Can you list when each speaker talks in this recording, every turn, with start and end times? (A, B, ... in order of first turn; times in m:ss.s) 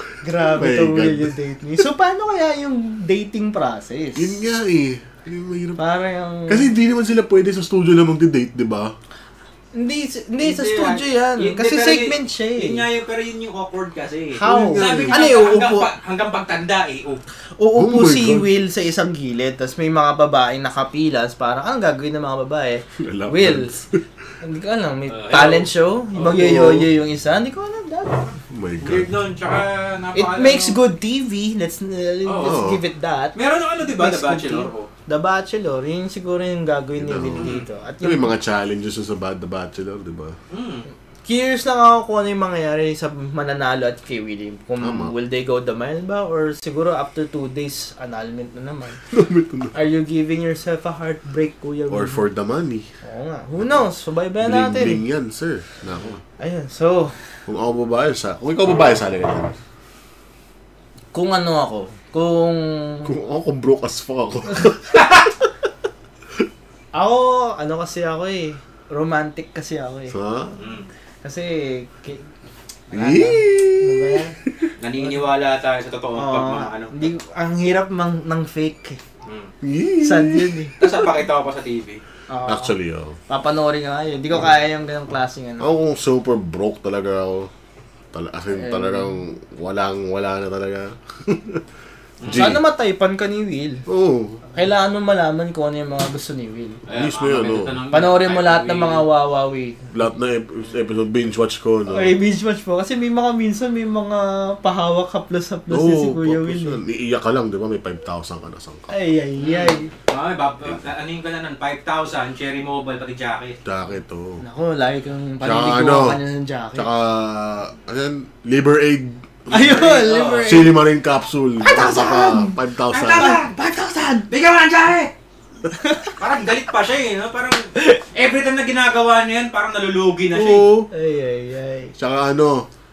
0:00.2-0:04.4 A
0:00.5-0:01.3 B
0:04.2-0:05.8 B
0:05.8-0:06.7 A
0:06.5-0:08.9 B
0:09.7-0:12.8 A
0:10.4-0:17.2 C
0:14.4-0:15.9 A
0:14.4-0:15.3 B
0:17.6-0:23.7 A
0:17.8-0:18.5 B
0:23.0-0:24.0 B
0:24.4-0:28.3 A
0:25.1-0:25.7 C
0:26.3-0:26.9 B
0:28.5-0:29.1 B
0:28.8-0:30.8 C
0:30.1-0:38.3 A
0:32.3-0:32.6 C
0:32.4-0:32.8 B
0:33.4-0:34.9 C
0:37.0-0:40.4 B
0:37.4-0:37.6 C
0:40.5-0:40.8 C
0:41.3-0:49.0 A
0:44.8-0:45.1 B
0:49.1-0:49.7 B
0:49.7-0:52.2 A
0:51.9-0:52.9 B
0:53.0-0:55.0 A
0:54.4-0:56.2 B
0:56.4-0:57.2 A
0:57.5-0:59.6 B
1:01.1-1:03.1 A
1:03.0-1:05.0 B
1:06.9-1:10.2 A
1:10.1-1:10.6 B
1:10.6-1:10.9 C
1:11.2-1:12.3 A
1:12.9-1:14.4 A
1:12.9-1:14.6 B
1:14.8-1:17.0 C
1:16.1-1:19.0 A
1:19.2-1:19.5 C
1:19.6-1:20.9 B
1:20.0-1:20.8 A
1:20.8-1:22.0 C
1:22.3-1:22.7 A
1:22.4-1:23.2 B
1:23.3-1:25.7 A
1:25.6-1:27.5 B
1:28.1-1:31.6 B
1:28.5-1:29.1 A
1:32.2-1:32.6 C
1:32.2-1:32.6 B
1:32.3-1:33.8 A
1:33.9-1:34.4 B
1:34.5-1:36.8 A
1:36.9-1:39.0 C
1:36.9-1:37.8 B
1:37.9-1:39.9 A
1:39.9-1:42.1 B
1:41.9-1:46.8 A
1:45.7-1:48.9 B
1:48.9-1:49.9 A
1:49.4-1:53.6 C
1:53.6-1:54.4 B
1:54.4-1:56.9 A
1:55.4-1:56.2 B
1:56.7-2:03.4 B
1:59.5-2:00.8 A
1:59.6-2:00.7 C
2:01.6-2:02.6 A
2:02.9-2:03.6 C
2:03.2-2:04.3 A
2:04.3-2:05.1 C
2:05.8-2:06.1 A
2:06.2-2:10.7 C
2:10.3-2:10.9 B
2:10.9-2:11.9 A
2:12.0-2:12.7 B